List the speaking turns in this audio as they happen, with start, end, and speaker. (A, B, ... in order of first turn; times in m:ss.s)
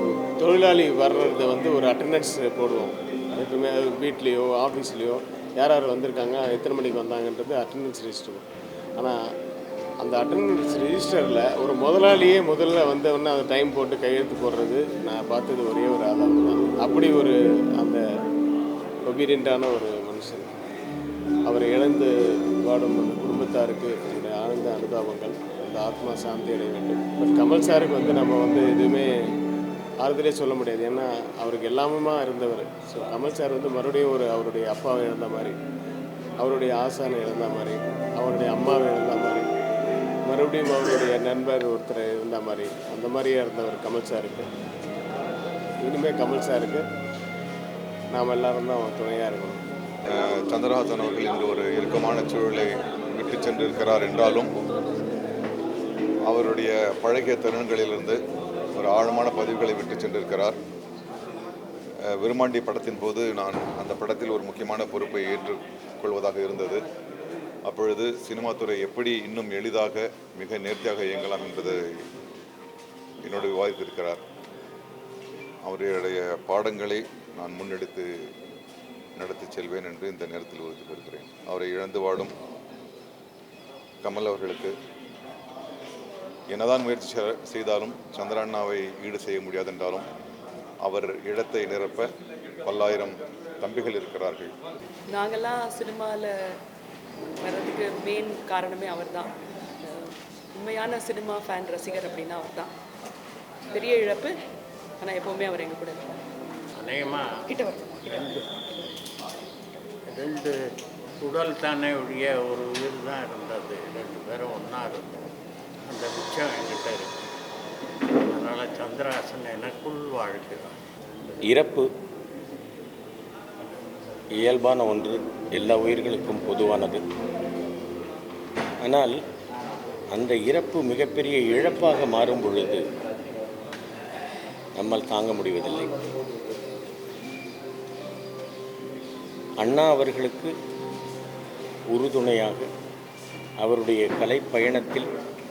0:00.4-0:08.4 A
0:10.0-0:18.0 A
0:19.1-0:20.5 A
0:21.5-0:22.1 A
0:22.6-0:29.1 A
0:30.0-0:35.6 A
0:36.4-0:39.4 A
0:40.3-0:44.5 A
0:45.8-0:46.8 A
0:48.1-0:49.6 A
0:50.1-0:54.5 B
0:56.3-0:58.2 B
0:58.8-1:00.6 B
1:02.2-1:06.8 B
1:07.6-1:12.0 B
1:13.2-1:14.2 B
1:15.6-1:18.1 B
1:19.2-1:22.3 B
1:24.0-1:24.7 B
1:26.5-1:30.0 B
1:30.8-1:32.1 B
1:32.6-1:34.5 B
1:35.1-1:36.3 C
1:37.4-1:39.3 C
1:40.5-1:42.7 C
1:43.7-1:44.3 C
1:45.0-1:46.1 C
1:46.8-1:47.3 D
1:47.5-1:48.0 C
1:48.0-1:48.5 D
1:50.1-1:50.5 D
1:51.2-1:55.3 D
1:55.9-1:57.1 D
1:58.3-2:00.8 D
2:01.5-2:01.9 E
2:04.4-2:07.0 E
2:08.8-2:09.1 E
2:10.1-2:12.8 E
2:14.8-2:15.9 E
2:19.6-2:20.5 E
2:21.9-2:22.7 E
2:23.6-2:25.0 E